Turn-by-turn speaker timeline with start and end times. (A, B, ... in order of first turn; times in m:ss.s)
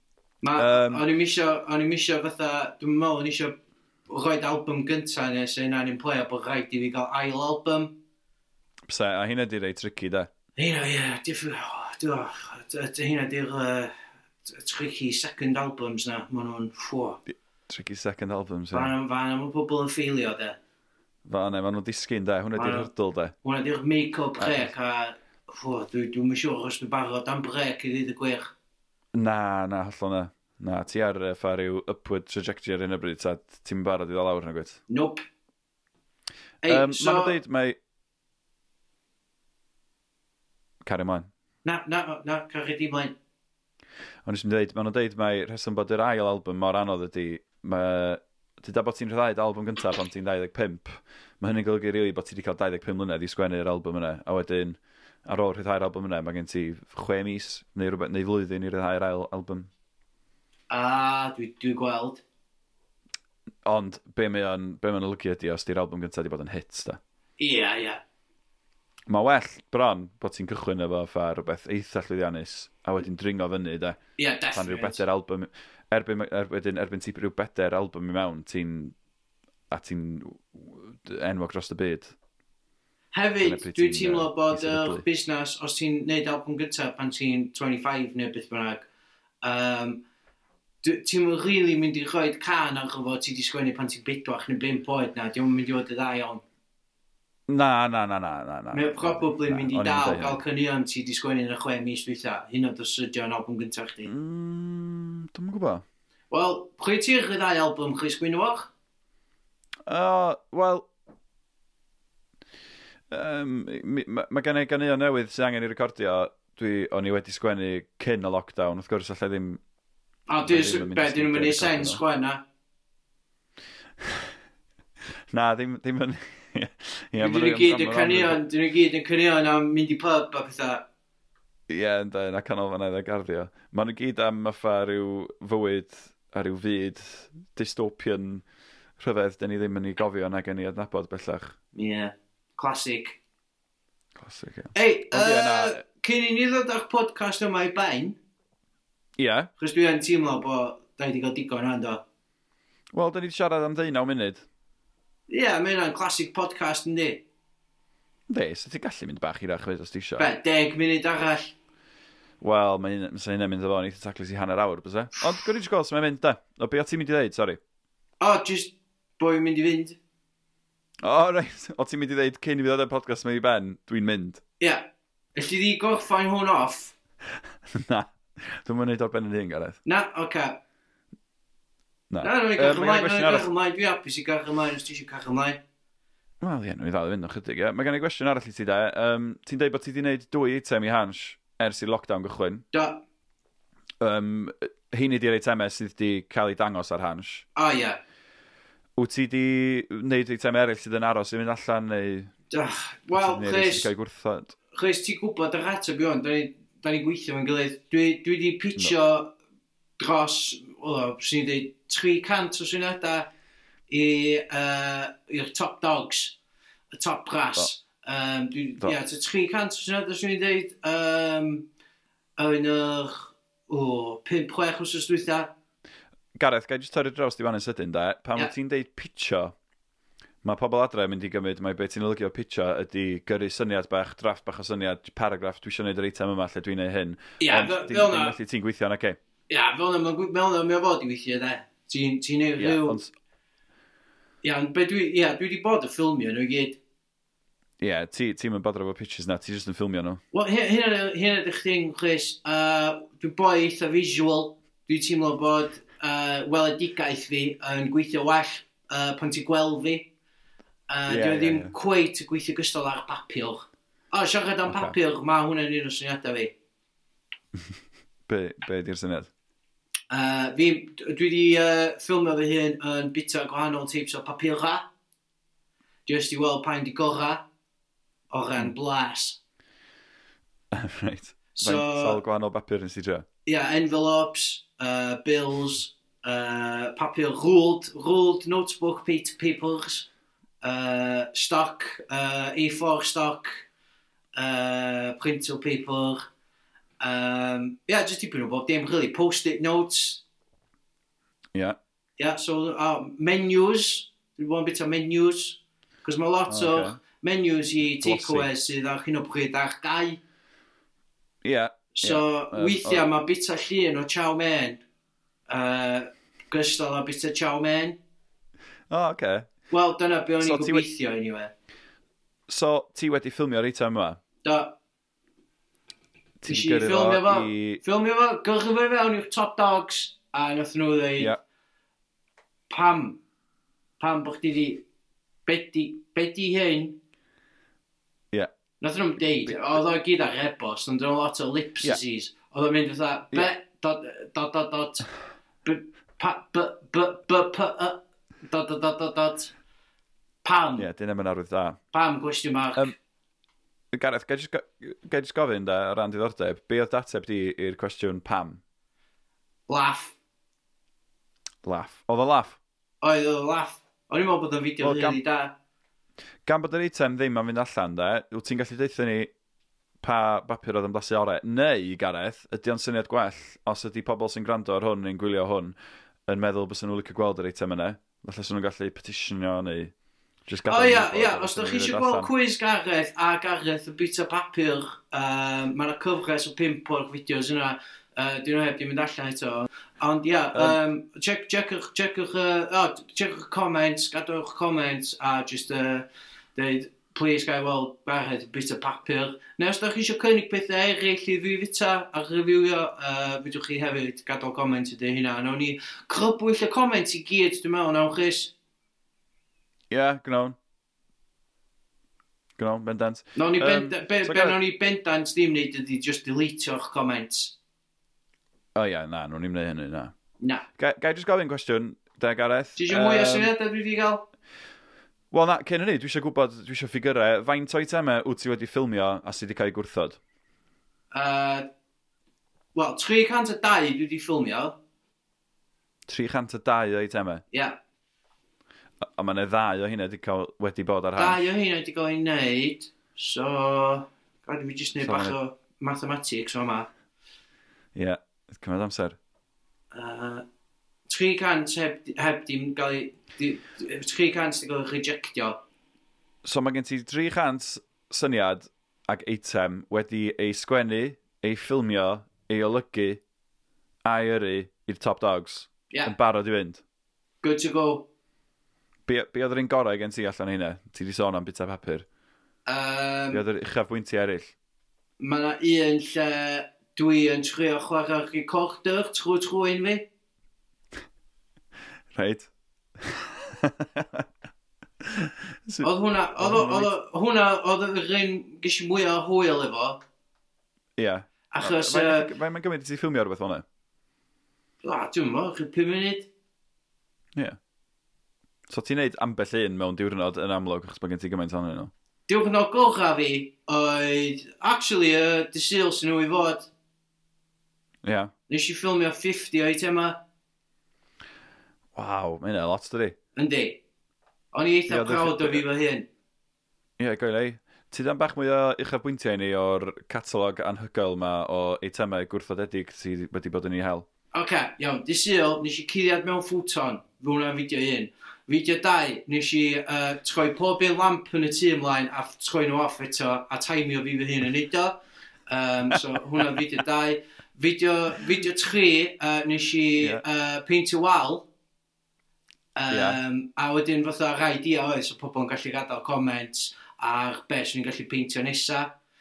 0:00.4-0:07.9 A
0:00.6-0:01.0 B
0:08.9-0:10.3 B
0:10.6-0:13.9 A
0:14.4-0:17.2 A
0:17.7-0:18.9 B
0:18.7-0:20.6 A
0:21.2-0:23.3 B
0:22.6-0:22.9 A
0:23.4-0:28.5 A
0:24.4-0:24.7 B
0:29.1-0:34.8 B
0:34.9-0:35.2 A
0:36.6-0:37.4 A
0:36.6-0:37.8 B
0:40.8-0:41.3 B
0:41.6-0:43.1 A
0:44.2-0:59.7 B
1:00.7-1:02.2 A
1:03.6-1:07.0 B
1:07.4-1:08.0 A
1:09.1-1:14.0 B
1:14.2-1:15.0 A
1:14.5-1:18.9 B
1:19.7-1:22.1 B
1:23.1-1:28.9 A
1:23.4-1:25.0 B
1:29.4-1:30.0 A
1:30.8-1:36.4 A
1:37.5-1:40.4 B
1:38.7-1:44.1 A
1:44.0-1:45.8 B
1:46.3-1:48.7 A
1:49.9-1:50.9 B
1:53.1-1:59.6 B
2:00.3-2:02.4 A
2:00.4-2:02.0 B
2:04.0-2:04.3 B
2:05.3-2:08.4 B
2:07.2-2:10.8 A
2:11.7-2:18.4 B
2:19.0-2:21.6 B
2:21.7-2:23.2 A
2:24.2-2:25.8 B
2:24.7-2:28.2 A
2:29.2-2:29.5 B
2:29.6-2:32.0 A
2:32.9-2:34.4 B
2:35.3-2:37.2 A
2:38.3-2:40.3 B
2:40.2-2:41.5 A
2:42.4-2:47.6 B
2:48.2-2:50.0 A
2:51.0-2:54.4 B
2:54.6-2:56.9 A
2:57.7-2:59.8 B
2:59.8-3:00.6 A
3:02.1-3:03.5 B
3:02.2-3:05.6 A
3:06.4-3:12.6 B
3:12.7-3:13.0 A
3:14.0-3:17.4 B
3:17.6-3:18.0 A
3:19.0-3:22.3 B
3:22.5-3:23.9 A
3:23.1-3:24.5 B
3:24.7-3:29.3 A
3:30.0-3:33.3 A
3:33.9-3:36.4 A
3:36.9-3:41.7 A
3:42.4-3:45.5 A
3:46.4-3:49.5 B
3:50.4-3:59.2 B
3:57.4-3:58.4 A
3:59.5-4:03.0 A
4:02.6-4:03.1 B
4:04.4-4:06.8 A
4:07.8-4:10.2 B
4:10.3-4:20.1 A
4:20.9-4:26.5 A
4:21.1-4:21.7 B
4:24.7-4:24.9 B
4:28.3-4:29.3 B
4:30.1-4:34.9 A
4:36.0-4:37.4 A
4:38.3-4:39.4 A
4:40.7-4:43.2 B
4:41.5-4:42.2 A
4:43.4-4:50.1 A
4:50.6-4:53.6 A
4:54.3-4:56.3 A
4:57.0-5:00.2 A
5:02.2-5:10.2 A
5:06.5-5:07.0 B
5:07.8-5:08.5 B
5:11.4-5:13.1 B
5:11.9-5:14.8 A
5:15.5-5:18.0 A
5:18.9-5:19.5 B
5:19.7-5:21.5 A
5:20.4-5:20.8 B
5:22.5-5:24.2 B
5:24.4-5:24.8 A
5:26.4-5:27.8 B
5:26.5-5:31.4 A
5:32.7-5:33.2 A
5:34.0-5:34.8 A
5:35.4-5:37.0 A
5:38.8-5:45.1 A
5:39.3-5:39.8 B
5:45.6-5:49.5 A
5:50.4-5:50.9 A
5:50.8-5:51.8 B
5:51.9-5:52.9 A
5:53.9-5:58.6 B
5:59.7-6:00.2 A
6:01.6-6:02.6 B
6:03.0-6:05.5 A
6:04.8-6:05.2 B
6:06.4-6:09.3 B
6:10.0-6:15.7 B
6:16.3-6:19.9 B
6:20.5-6:22.3 B
6:20.6-6:48.5 A
6:49.9-6:50.6 B
6:52.6-6:54.6 B
6:53.4-6:57.5 A
6:58.7-7:00.1 B
7:00.8-7:03.5 B
7:02.8-7:04.2 A
7:05.3-7:10.2 B
7:11.1-7:11.7 A
7:12.7-7:14.8 A
7:16.1-7:17.4 B
7:17.5-7:17.8 A
7:19.0-7:21.4 B
7:21.2-7:26.9 A
7:25.0-7:25.4 B
7:27.9-7:29.2 B
7:29.9-7:30.4 A
7:31.1-7:35.6 A
7:36.4-7:43.2 B
7:44.0-7:46.8 B
7:47.4-7:48.1 A
7:49.1-7:52.0 B
7:52.7-7:53.4 A
7:53.3-7:54.5 B
7:55.2-8:00.1 A
8:02.1-8:04.2 B
8:05.0-8:06.9 B
8:05.8-8:10.0 A
8:11.0-8:13.6 B
8:11.5-8:12.3 A
8:14.8-8:16.3 A
8:18.7-8:21.9 B
8:22.3-8:26.7 A
8:28.0-8:28.3 B
8:28.5-8:30.2 A
8:31.9-8:33.2 B
8:33.4-8:33.8 A
8:34.5-8:36.1 A
8:34.9-8:35.6 B
8:37.0-8:44.0 B
8:44.3-8:55.0 A
8:55.5-9:01.5 A
9:02.8-9:08.9 A
9:02.9-9:03.2 B